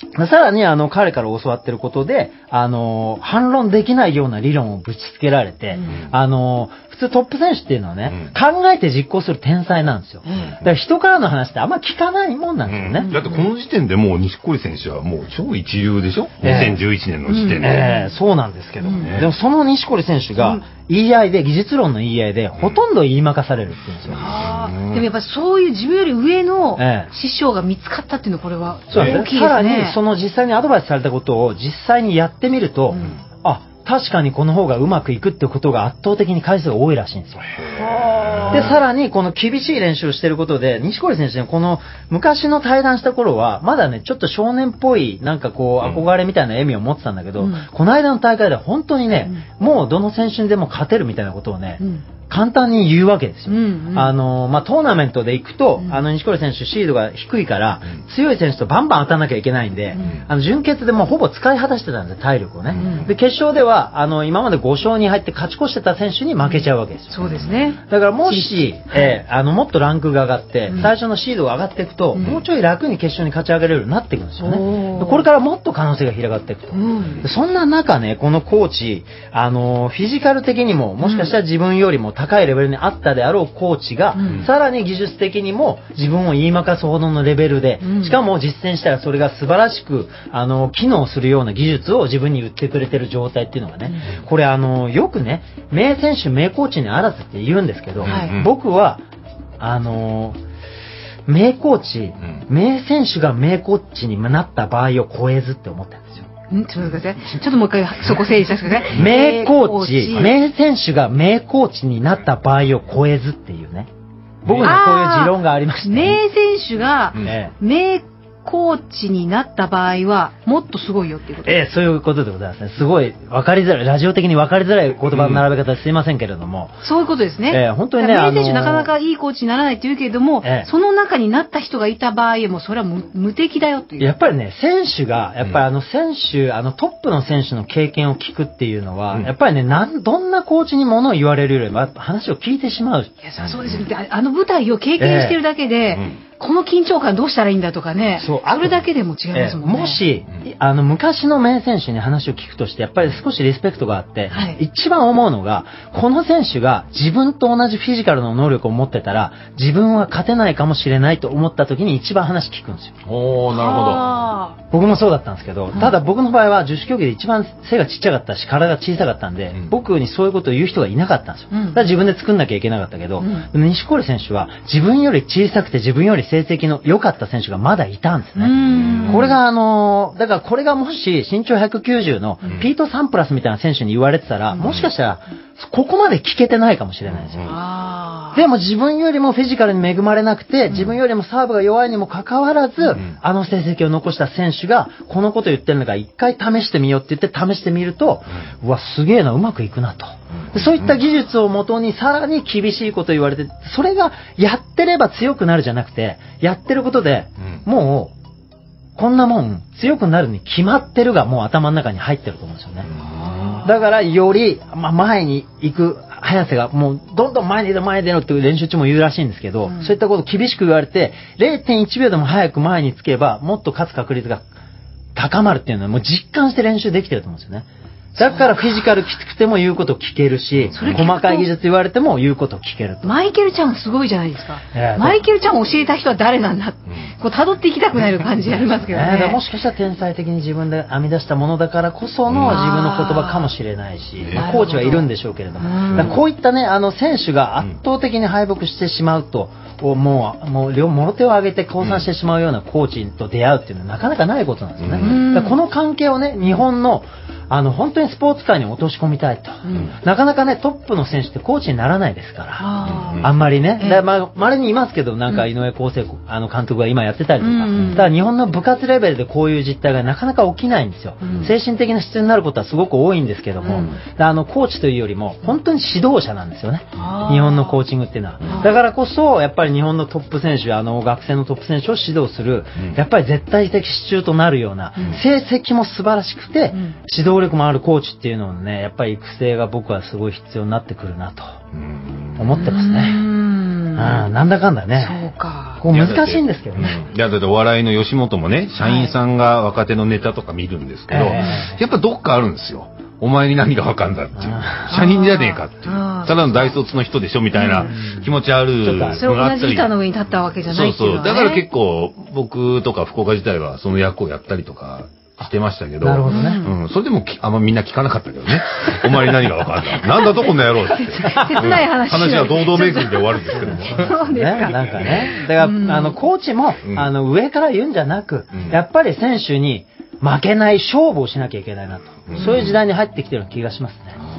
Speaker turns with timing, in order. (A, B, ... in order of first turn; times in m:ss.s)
0:00.2-0:13.1 A
0:05.7-0:06.0 B
0:10.2-0:10.6 B
0:12.7-0:17.8 C
0:13.0-0:13.4 B
0:16.4-0:16.8 A
0:17.3-0:18.2 B
0:17.6-0:24.4 A
0:18.8-0:19.2 B
0:19.0-0:19.3 C
0:20.4-0:20.6 B
0:24.1-0:30.0 B
0:24.2-0:25.1 C
0:26.8-0:27.1 A
0:28.9-0:37.5 A
0:28.9-0:29.2 C
0:37.6-0:38.8 C
0:37.8-0:38.7 B
0:38.5-1:07.2 A
0:47.4-0:47.7 B
0:51.8-0:52.0 B
0:53.5-0:54.1 B
0:59.9-1:00.2 B
1:02.7-1:03.0 C
1:02.8-1:03.1 B
1:06.5-1:09.2 B
1:07.2-1:07.6 C
1:07.9-1:39.0 A
1:14.4-1:15.3 B
1:16.7-1:17.2 B
1:21.0-1:21.3 B
1:24.2-1:24.5 B
1:27.8-1:28.2 B
1:38.0-1:38.5 C
1:38.1-1:38.4 B
1:39.6-1:40.4 A
1:41.3-1:46.3 A
1:46.5-1:50.4 B
1:48.9-1:53.9 A
1:54.4-1:56.2 A
1:54.5-1:54.8 C
1:54.6-2:01.6 B
1:57.2-1:57.5 A
2:01.4-2:06.8 A
2:05.1-2:05.4 C
2:06.8-2:14.1 B
2:07.5-2:08.9 A
2:10.4-2:10.7 A
2:14.0-2:23.8 A
2:23.2-2:30.0 B
2:25.0-2:25.4 A
2:28.2-2:28.8 A
2:29.3-2:43.0 A
2:34.3-2:34.6 B
2:43.0-2:44.0 C
2:43.5-2:44.6 B
2:44.7-2:58.5 A
2:51.5-2:51.8 B
2:53.2-2:53.5 B
2:58.4-2:59.4 B
2:58.6-2:59.3 C
2:59.1-3:07.5 A
3:04.6-3:04.9 C
3:07.1-3:07.5 C
3:07.4-3:08.5 B
3:08.3-3:28.1 A
3:20.5-3:20.9 C
3:29.0-3:32.9 A
3:33.0-3:33.6 C
3:33.0-3:33.7 B
3:33.6-3:44.4 A
3:39.7-3:39.9 B
3:45.2-3:53.2 A
3:48.2-3:48.5 B
3:50.6-3:51.0 C
3:50.8-3:51.5 B
3:53.0-3:59.4 B
3:54.7-3:55.2 A
3:58.9-4:51.6 A
4:02.3-4:02.6 C
4:02.4-4:03.5 B
4:04.3-4:05.1 B
4:05.6-4:06.2 B
4:14.8-4:15.2 C
4:15.0-4:15.6 B
4:19.6-4:19.9 B
4:22.6-4:24.0 B
4:22.8-4:23.3 C
4:27.4-4:28.1 B
4:31.2-4:31.5 B
4:33.6-4:34.0 B
4:37.0-4:37.8 B
4:38.4-4:38.8 B
4:51.7-4:52.5 C
4:52.4-4:53.3 A
4:52.6-4:54.3 B
4:53.9-4:55.2 A
4:55.0-4:55.8 B
4:55.8-4:57.0 A
4:55.9-5:10.0 C
4:58.8-4:59.2 B
5:01.1-5:01.8 A
5:01.3-5:01.6 B
5:04.4-5:04.9 A
5:04.9-5:06.8 B
5:07.5-5:07.9 B
5:07.9-5:08.3 A
5:08.8-5:09.2 A
5:09.0-5:11.7 B
5:10.6-5:25.3 C
5:16.0-5:16.7 A
5:16.2-5:16.8 B
5:20.0-5:26.2 B
5:21.3-5:21.6 A
5:23.5-5:34.2 A
5:32.4-5:32.8 B